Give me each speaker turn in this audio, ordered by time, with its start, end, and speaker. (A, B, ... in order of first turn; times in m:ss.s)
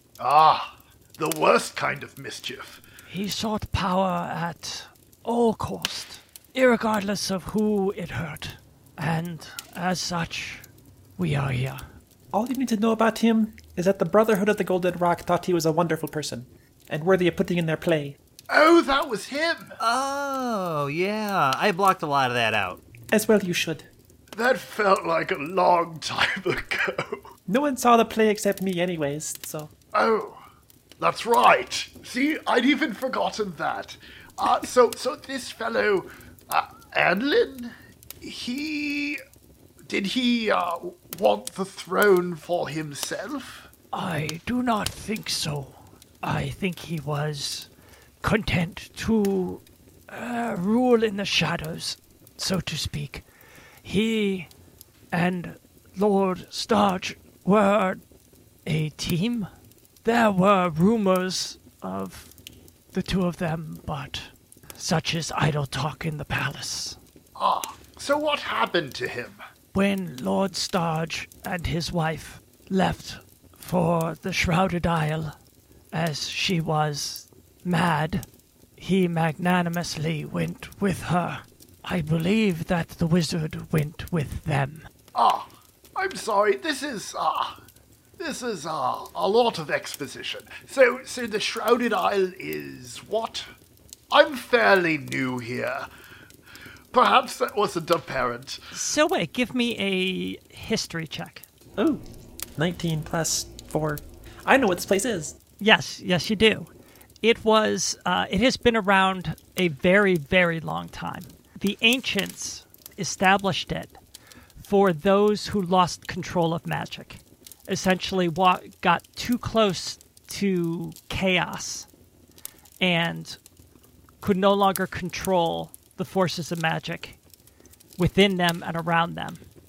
0:00.2-0:02.8 A
0:03.1-0:10.6 B
0:11.2-0:11.8 B
0:12.3-0:18.2 C
0:18.5-0:19.8 A
0:19.8-0:22.8 D
0:23.1-0:23.9 C
0:24.3-0:27.2 A
0:27.5-0:29.7 C
0:29.9-0:30.4 A
0:31.0-0:39.2 A
0:39.9-0:43.7 A
0:43.9-0:47.7 B
0:48.2-0:53.2 B
0:53.8-0:54.5 B
0:55.1-0:58.0 B
0:58.6-0:59.5 B
1:00.0-1:02.3 B
1:02.9-1:07.0 B
1:07.4-1:09.4 A
1:09.7-1:15.3 B
1:15.9-1:18.2 B
1:18.8-1:24.9 B
1:25.1-1:27.6 A
1:28.2-1:33.4 A
1:34.1-1:35.9 A
1:36.9-1:38.6 A
1:38.7-1:41.4 E
1:41.8-1:42.0 C
1:42.6-1:45.4 C
1:45.6-1:46.7 E
1:47.2-1:54.0 E
1:54.6-2:01.9 E
2:02.8-2:03.4 E
2:04.2-2:07.2 E
2:08.0-2:09.4 E